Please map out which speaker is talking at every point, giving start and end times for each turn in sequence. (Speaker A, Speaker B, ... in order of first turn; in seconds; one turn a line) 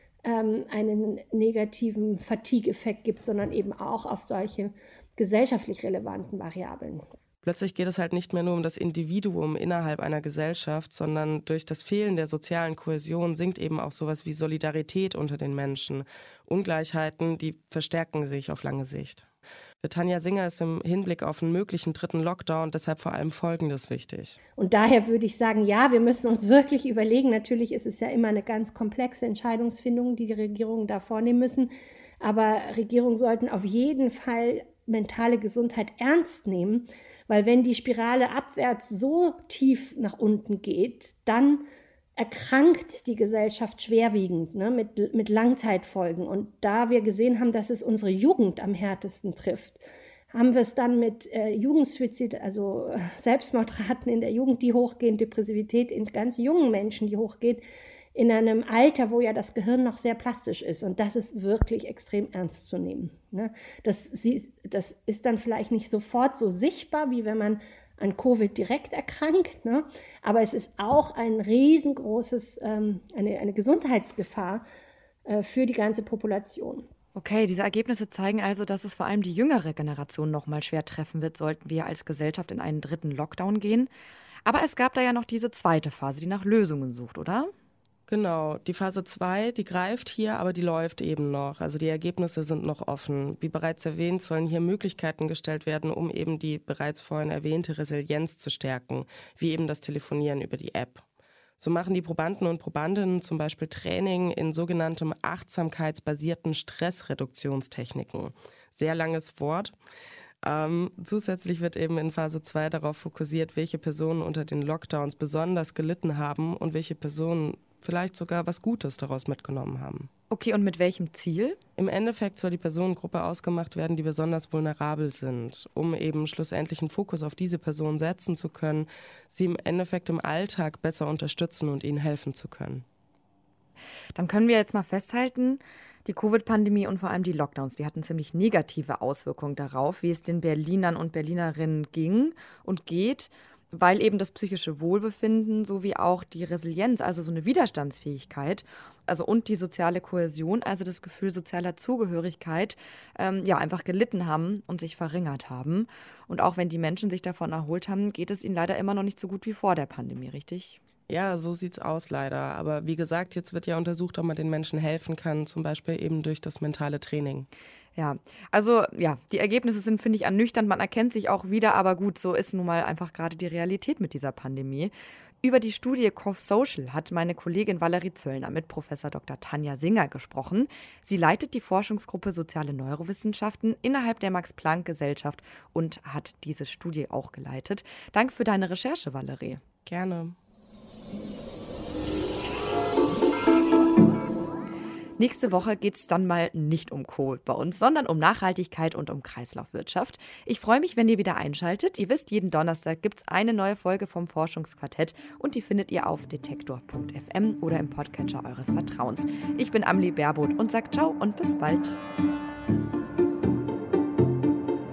Speaker A: 0.2-7.0
Speaker B: 7.4-19.3
Speaker B: 19.8-24.4
Speaker A: 24.6-41.7
Speaker A: 42.2-57.6
Speaker A: 58.1-74.6
Speaker A: 75.3-76.9
Speaker C: 77.2-83.9
Speaker C: 84.5-87.5
Speaker B: 88.1-101.0
Speaker B: 101.6-109.8
Speaker B: 110.4-120.1
Speaker C: 120.3-121.6
Speaker B: 121.8-132.8
Speaker C: 134.2-160.8
Speaker B: 161.1-167.5
Speaker C: 168.0-189.6
Speaker B: 189.9-190.4
Speaker C: 195.2-212.0